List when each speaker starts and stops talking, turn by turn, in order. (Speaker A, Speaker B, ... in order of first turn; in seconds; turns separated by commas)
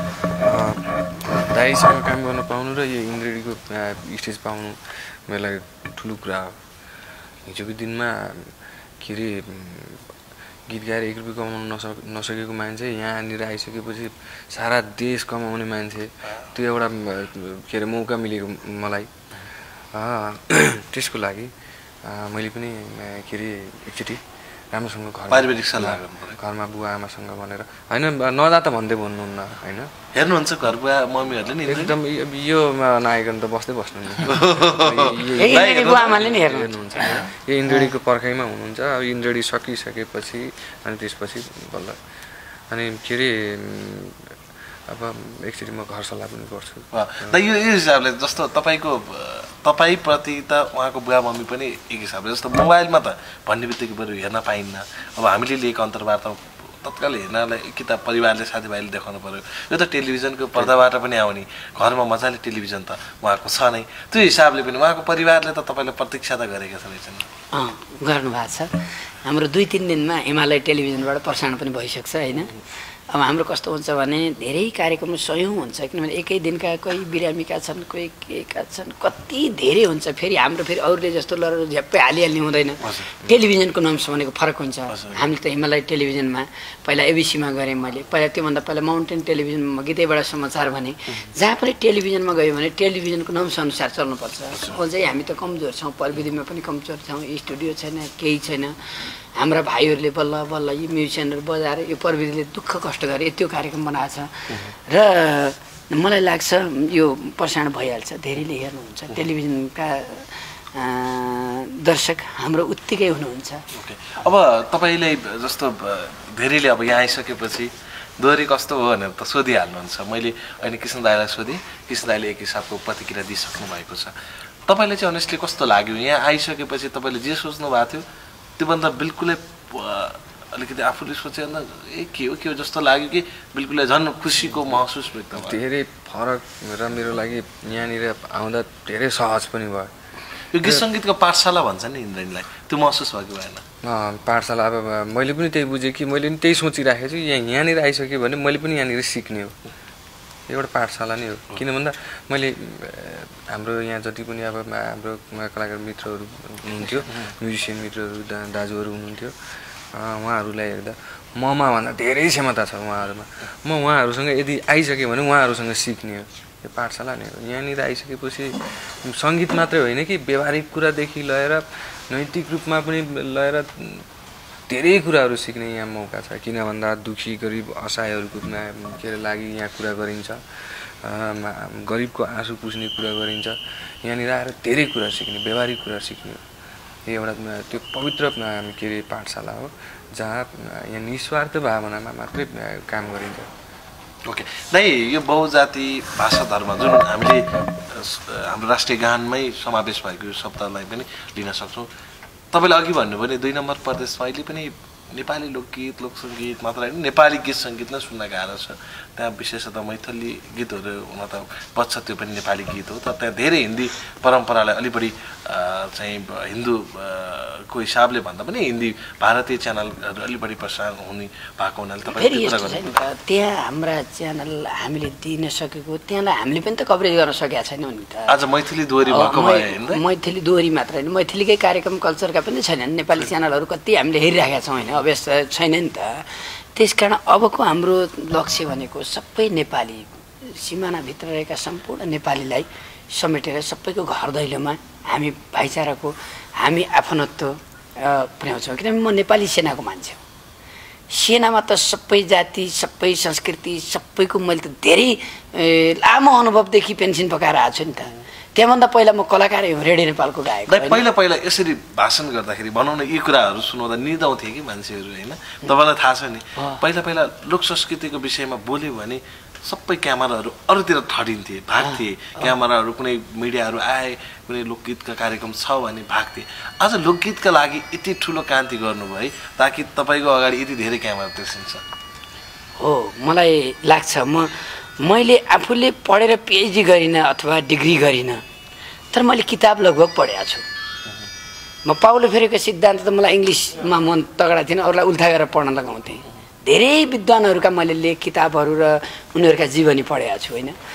Speaker A: 0.4-4.8, Speaker A: 5.3-6.6, Speaker A: 7.4-10.1, Speaker A: 10.7-19.1, Speaker A: 19.9-21.5, Speaker A: 22.0-29.9, Speaker B: 25.3-26.4, Speaker B: 30.1-31.9, Speaker A: 31.6-42.0, Speaker B: 34.2-36.4, Speaker C: 35.3-37.9, Speaker A: 42.7-44.3, Speaker A: 44.9-47.4, Speaker B: 46.9-67.3, Speaker C: 67.5-72.5, Speaker C: 73.1-113.6, Speaker B: 82.8-83.1, Speaker B: 84.9-85.2, Speaker B: 113.7-124.1, Speaker B: 124.7-128.0, Speaker B: 128.6-135.6, Speaker A: 135.3-139.9, Speaker B: 140.5-143.6, Speaker A: 140.6-140.8, Speaker A: 143.8-149.6, Speaker A: 150.5-159.3, Speaker A: 159.9-174.0, Speaker A: 174.7-186.4, Speaker A: 187.1-193.5, Speaker B: 194.2-201.9, Speaker B: 202.5-223.0, Speaker C: 222.1-228.4, Speaker B: 228.3-230.0, Speaker C: 229.1-250.2, Speaker C: 251.1-261.0, Speaker B: 260.7-281.8, Speaker C: 271.8-272.5, Speaker C: 282.8-288.4, Speaker C: 289.1-290.6, Speaker C: 291.9-300.8